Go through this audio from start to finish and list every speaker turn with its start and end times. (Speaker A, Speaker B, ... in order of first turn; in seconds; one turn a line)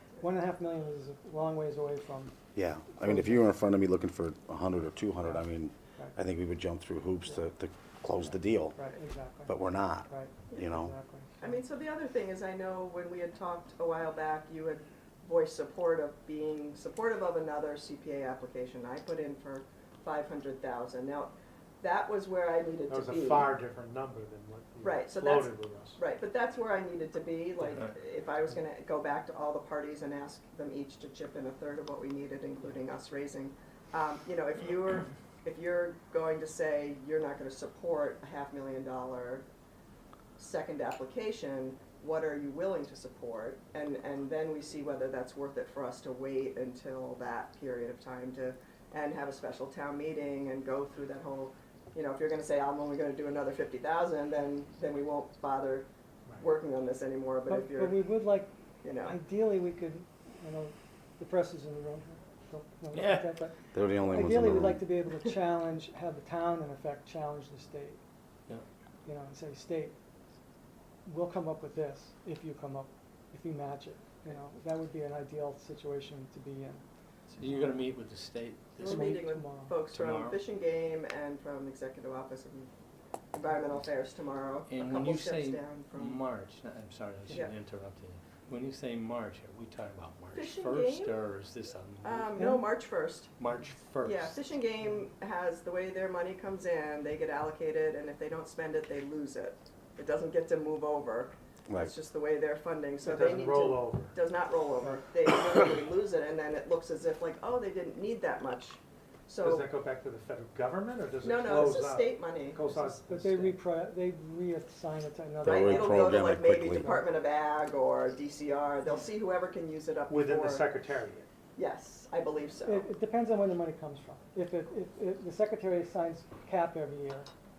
Speaker A: 0.2-2.3
Speaker B: 2.5-8.8
Speaker A: 2.9-3.4
Speaker A: 8.7-11.6
Speaker B: 9.5-10.9
Speaker C: 10.5-10.8
Speaker C: 11.4-23.6
Speaker D: 22.9-26.0
Speaker C: 24.8-39.4
Speaker C: 40.4-55.9
Speaker C: 56.4-58.1
Speaker A: 57.5-68.0
Speaker C: 58.8-59.2
Speaker E: 62.9-63.4
Speaker B: 63.7-64.8
Speaker A: 69.0-70.0
Speaker A: 71.0-76.8
Speaker E: 77.3-79.2
Speaker A: 77.4-77.7
Speaker C: 78.8-82.7
Speaker A: 78.8-79.8
Speaker E: 79.9-80.4
Speaker C: 83.3-86.2
Speaker E: 84.7-92.5
Speaker C: 90.3-91.2
Speaker C: 92.0-93.3
Speaker A: 92.3-92.6
Speaker E: 93.4-94.4
Speaker C: 94.0-109.7
Speaker D: 103.0-104.2
Speaker D: 109.4-113.6
Speaker C: 111.2-112.6
Speaker A: 112.7-116.2
Speaker B: 115.4-117.0
Speaker C: 115.4-120.7
Speaker D: 120.1-121.2
Speaker C: 121.5-122.9
Speaker A: 122.6-127.3